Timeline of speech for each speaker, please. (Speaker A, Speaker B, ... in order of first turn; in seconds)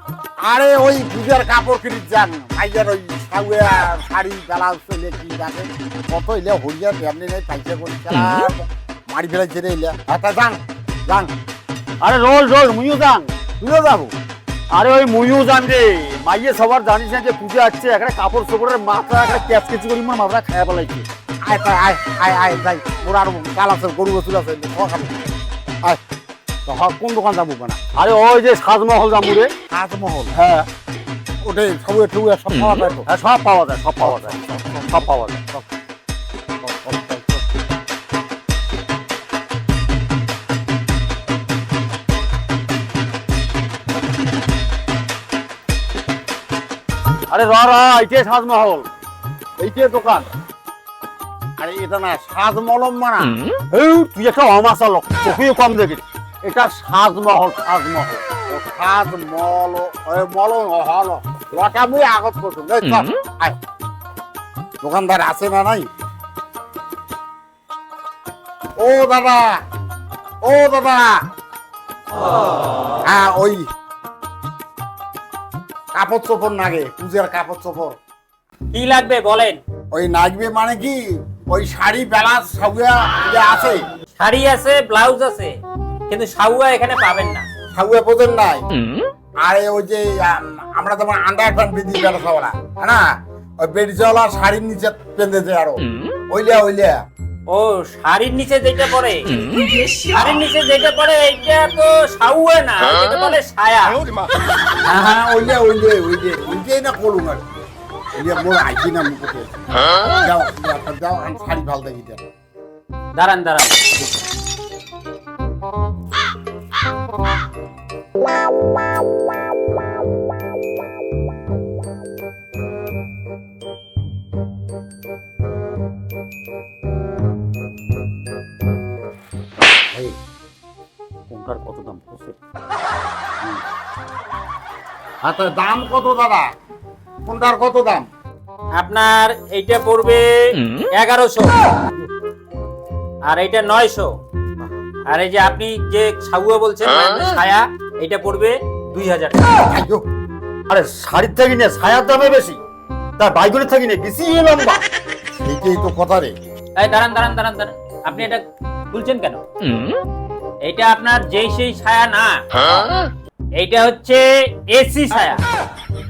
Speaker A: 0.4-11.3, 13.6-14.1, 21.4-25.3, 26.7-27.8, 29.7-30.4, 31.4-33.1, 34.0-35.6, 36.6-37.4, 49.6-50.3, 51.6-53.4, 57.7-63.6, 64.8-65.9, 68.8-69.6, 70.4-71.2, 73.0-73.7, 76.0-78.0, 79.9-83.8, 87.7-88.7, 89.4-93.0, 93.6-97.0, 104.8-107.4, 108.2-112.2, 135.2-136.5, 137.2-138.1, 149.7-150.1, 155.4-156.3
Speaker B: 12.0-13.3, 14.7-21.1, 27.9-29.5, 30.3-30.7, 33.1-35.4, 47.3-48.9, 53.7-57.7, 131.3-132.4, 150.7-152.6, 153.2-154.8
Speaker C: 78.7-79.6, 84.2-85.6, 86.1-87.5, 97.5-104.0, 113.1-113.8, 138.8-141.5, 143.3-144.2, 145.1-149.5, 156.8-159.4, 160.6-162.4, 163.6-165.4